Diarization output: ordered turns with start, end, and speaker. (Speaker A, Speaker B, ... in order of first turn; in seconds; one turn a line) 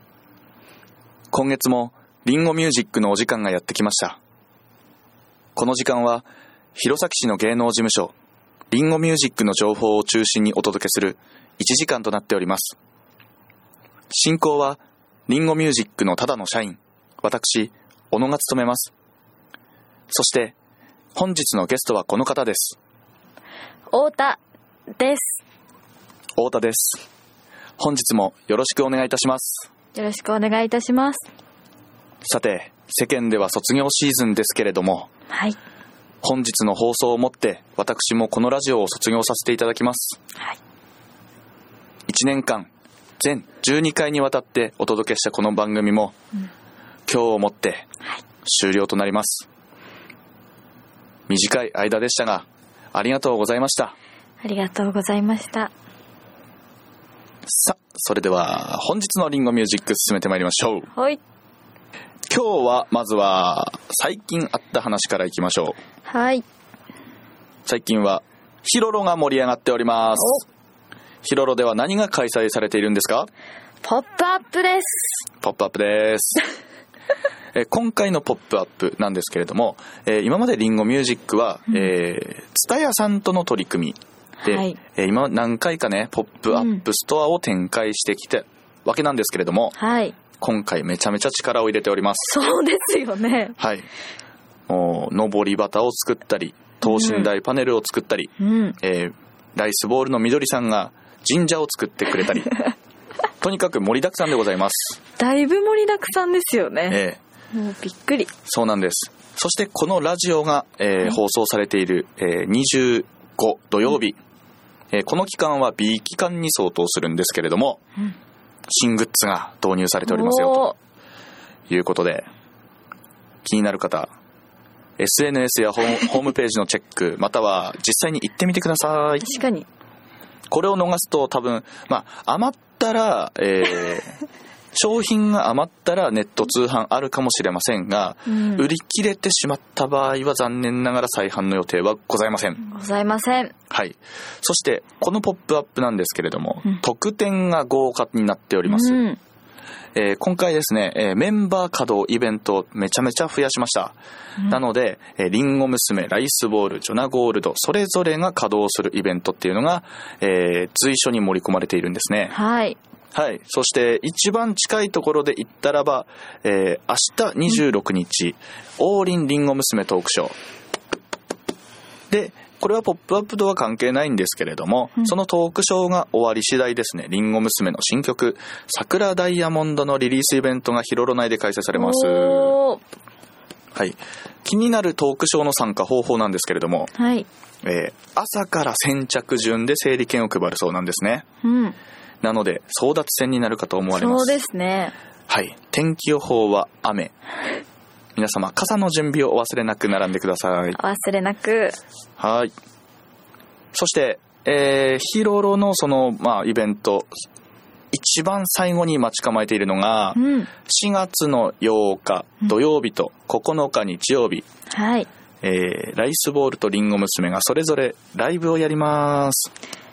Speaker A: 1.3-4.2
Speaker A: 5.5-8.1
Speaker A: 8.7-12.8
Speaker A: 14.1-18.9
Speaker A: 20.1-20.5
Speaker A: 21.1-22.8
Speaker B: 23.9-24.4
Speaker B: 24.9-25.4
Speaker A: 26.4-27.0
Speaker A: 27.8-29.7
Speaker B: 29.9-31.3
Speaker A: 32.2-35.1
Speaker B: 35.3-35.6
Speaker A: 36.2-40.2
Speaker A: 42.1-46.2
Speaker A: 47.1-47.9
Speaker A: 48.4-49.5
Speaker A: 51.3-54.0
Speaker B: 54.4-55.7
Speaker A: 57.5-60.9
Speaker B: 60.9-61.2
Speaker A: 62.3-65.8
Speaker B: 66.0-66.4
Speaker A: 67.6-70.4
Speaker A: 71.2-73.3
Speaker B: 73.8-75.2
Speaker A: 75.4-76.4
Speaker A: 77.5-89.8
Speaker B: 84.4-84.8
Speaker B: 86.5-86.8
Speaker B: 89.8-90.2
Speaker A: 90.4-92.3
Speaker B: 92.3-93.6
Speaker A: 93.6-93.9
Speaker A: 94.7-102.6
Speaker B: 96.8-97.3
Speaker B: 98.4-98.8
Speaker A: 103.4-105.0
Speaker B: 105.2-107.0
Speaker A: 106.9-107.2
Speaker B: 107.5-108.3
Speaker A: 108.4-114.2
Speaker A: 114.9-117.8
Speaker A: 118.7-120.7
Speaker B: 120.0-120.8
Speaker A: 121.7-122.3
Speaker A: 123.4-124.1
Speaker A: 125.0-129.3
Speaker B: 129.2-129.7
Speaker A: 130.5-134.2
Speaker A: 134.7-142.6
Speaker B: 138.3-138.7
Speaker B: 142.6-143.5
Speaker A: 143.7-149.0
Speaker B: 148.7-149.2
Speaker A: 149.9-162.4
Speaker B: 162.3-162.8
Speaker A: 163.1-170.3
Speaker A: 172.1-182.6
Speaker B: 181.7-182.8
Speaker A: 183.8-186.9
Speaker B: 186.9-187.3
Speaker A: 187.6-191.3
Speaker B: 191.4-191.8
Speaker A: 192.2-194.4
Speaker B: 193.9-194.9
Speaker A: 195.3-197.2
Speaker A: 198.2-200.8
Speaker B: 200.8-201.8
Speaker A: 202.2-202.5
Speaker A: 203.7-207.1
Speaker A: 207.9-214.5
Speaker B: 210.2-210.5
Speaker B: 214.7-215.1
Speaker A: 215.4-219.5